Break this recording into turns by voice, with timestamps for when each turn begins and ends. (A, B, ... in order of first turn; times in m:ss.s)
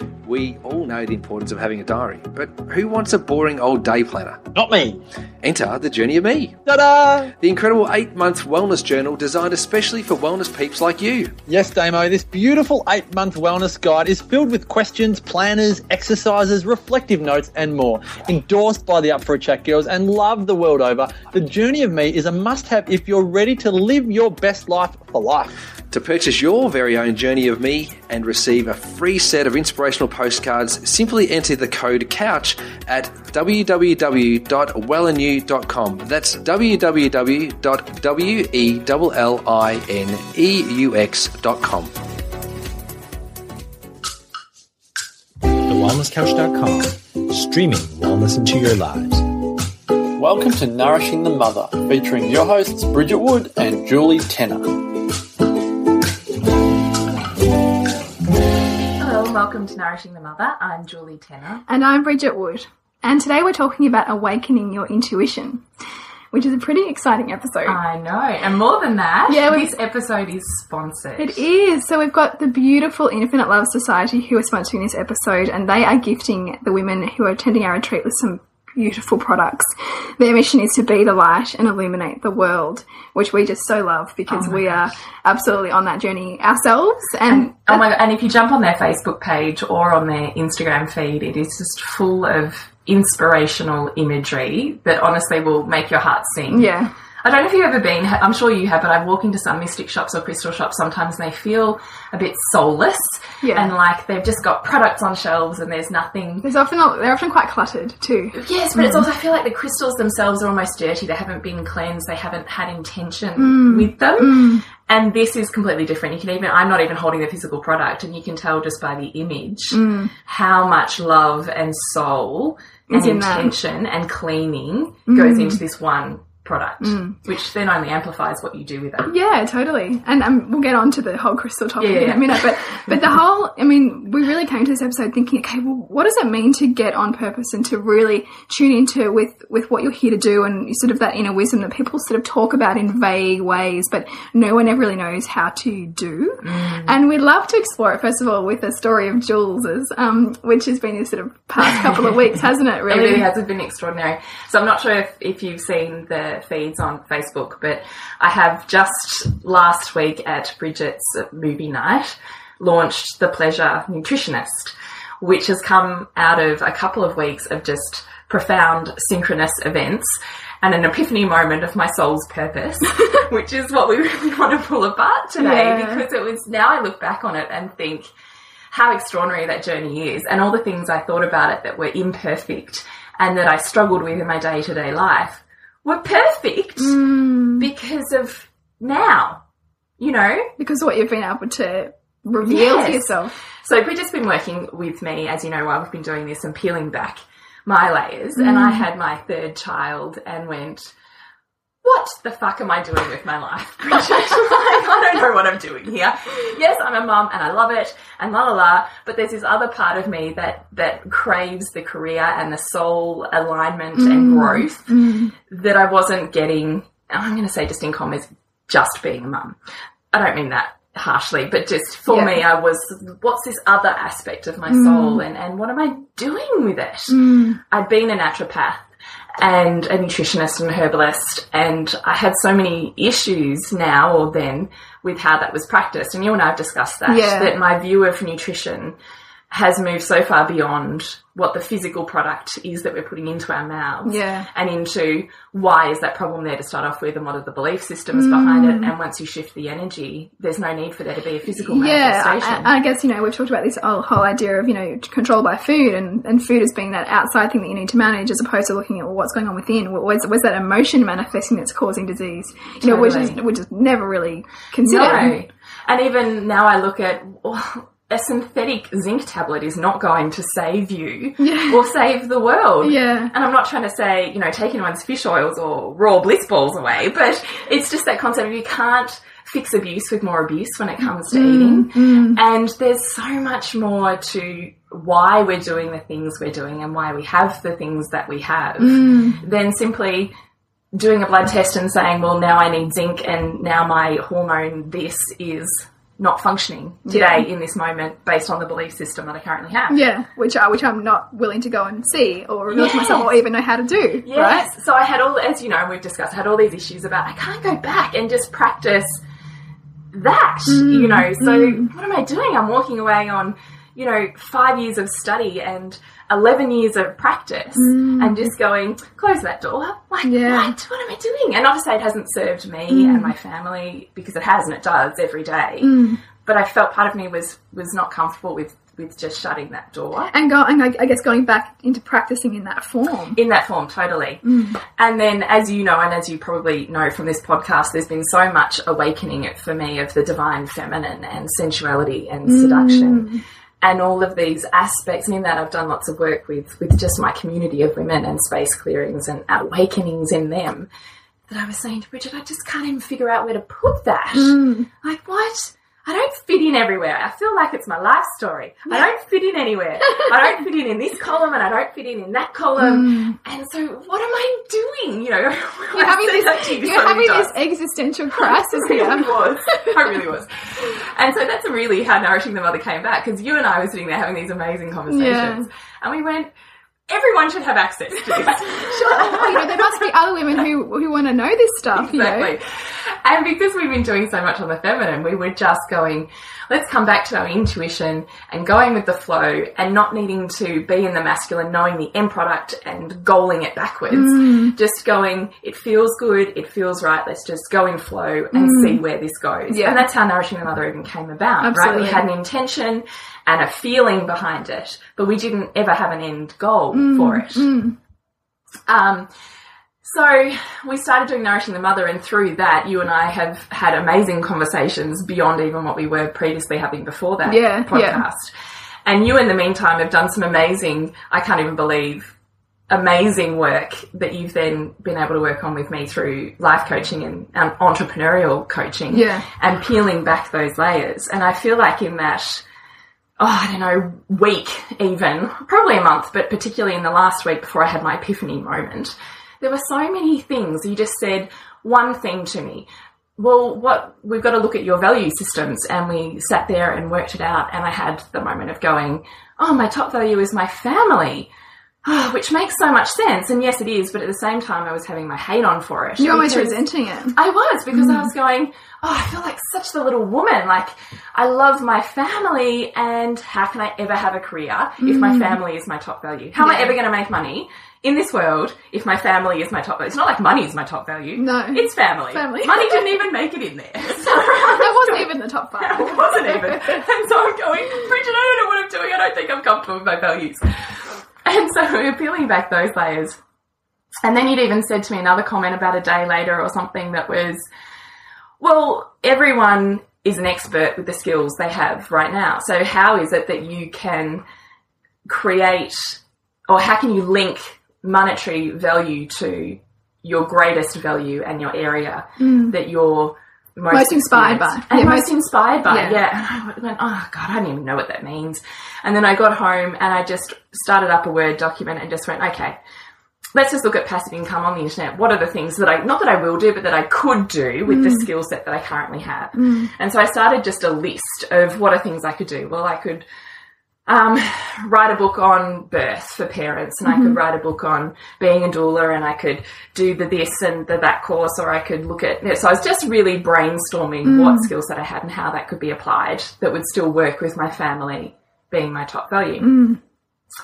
0:00.2-0:04.4 A
0:04.5-0:05.0 B
0:05.4-0:06.6 A
0:06.7-0:07.3 B
0:07.4-0:11.3 A
0:11.5-0:25.5 B
0:25.9-0:41.9 A
0:45.5-0:49.2 C
0:50.2-0:54.8 D
0:59.0-1:01.6 E
1:01.7-1:05.6 F
1:06.3-1:07.8 F
1:07.6-1:11.4 E
1:09.3-1:09.7 F
1:11.2-1:27.9 F
1:24.3-1:24.9 E
1:27.3-1:36.7 E
1:36.5-1:36.9 F
1:37.2-1:46.5 E
1:43.4-1:43.7 F
1:46.4-1:49.0 F
1:48.3-2:09.1 E
1:53.4-1:54.6 F
1:59.7-2:00.1 F
2:02.9-2:03.5 F
2:05.1-2:05.6 F
2:06.8-2:07.2 F
2:09.0-2:33.3 F
2:11.8-2:13.0 E
2:26.4-2:27.0 E
2:32.8-2:58.1 E
2:55.4-2:56.0 F
2:58.7-3:07.0 E
3:06.8-3:07.7 F
3:07.6-3:09.4 E
3:10.0-3:10.5 E
3:10.6-3:13.4 F
3:12.4-3:20.9 E
3:18.4-3:18.8 F
3:21.8-3:39.6 E
3:33.9-3:35.3 F
3:40.1-3:48.8 E
3:42.1-3:42.4 F
3:44.7-3:45.2 F
3:47.1-3:47.6 F
3:49.4-3:59.0 E
3:57.1-3:57.5 F
3:59.5-4:12.7 E
4:04.0-4:04.5 F
4:08.1-4:08.9 F
4:11.6-4:25.4 F
4:22.8-4:23.4 E
4:24.8-4:50.3 E
4:31.4-4:31.8 F
4:32.8-4:33.3 F
4:41.3-4:42.4 F
4:48.8-4:49.4 F
4:50.9-5:00.0 E
4:57.0-4:57.5 F
4:59.9-5:04.7 F
5:02.7-5:03.4 E
5:04.2-5:09.2 E
5:10.1-5:30.3 E
5:10.7-5:11.9 F
5:17.7-5:18.5 F
5:20.2-5:20.7 F
5:22.9-5:23.3 F
5:25.8-5:26.2 F
5:30.3-5:33.4 F
5:33.3-5:43.3 E
5:34.4-5:34.8 F
5:42.4-5:43.4 F
5:43.8-5:50.9 E
5:51.5-6:07.5 E
5:54.3-5:54.9 F
6:02.8-6:03.4 F
6:05.9-6:09.9 F
6:08.4-6:16.5 E
6:15.1-6:15.7 F
6:17.1-6:20.1 E
6:18.6-6:22.5 F
6:21.9-6:47.7 E
6:34.1-6:34.7 F
6:38.5-6:39.0 F
6:39.7-6:40.0 F
6:41.6-6:42.2 F
6:46.9-6:48.0 F
6:48.9-6:49.3 E
6:50.0-6:58.5 E
6:57.4-6:58.2 F
6:59.0-7:02.3 E
7:02.9-7:12.6 E
7:09.1-7:09.5 F
7:13.4-7:31.5 E
7:32.0-7:36.8 E
7:36.2-7:37.4 F
7:37.3-8:03.4 E
7:37.9-7:38.3 F
7:45.0-7:45.6 F
7:46.6-7:47.0 F
7:51.4-7:53.0 F
7:54.3-7:57.0 F
8:04.2-8:07.7 E
8:08.6-8:14.4 E
8:15.2-8:32.8 E
8:22.4-8:22.7 F
8:23.9-8:25.4 F
8:25.9-8:26.2 F
8:33.5-8:43.2 E
8:37.9-8:38.3 F
8:39.5-8:39.9 F
8:44.1-8:59.7 E
8:47.0-8:47.4 F
8:54.2-8:54.7 F
8:59.6-9:00.0 F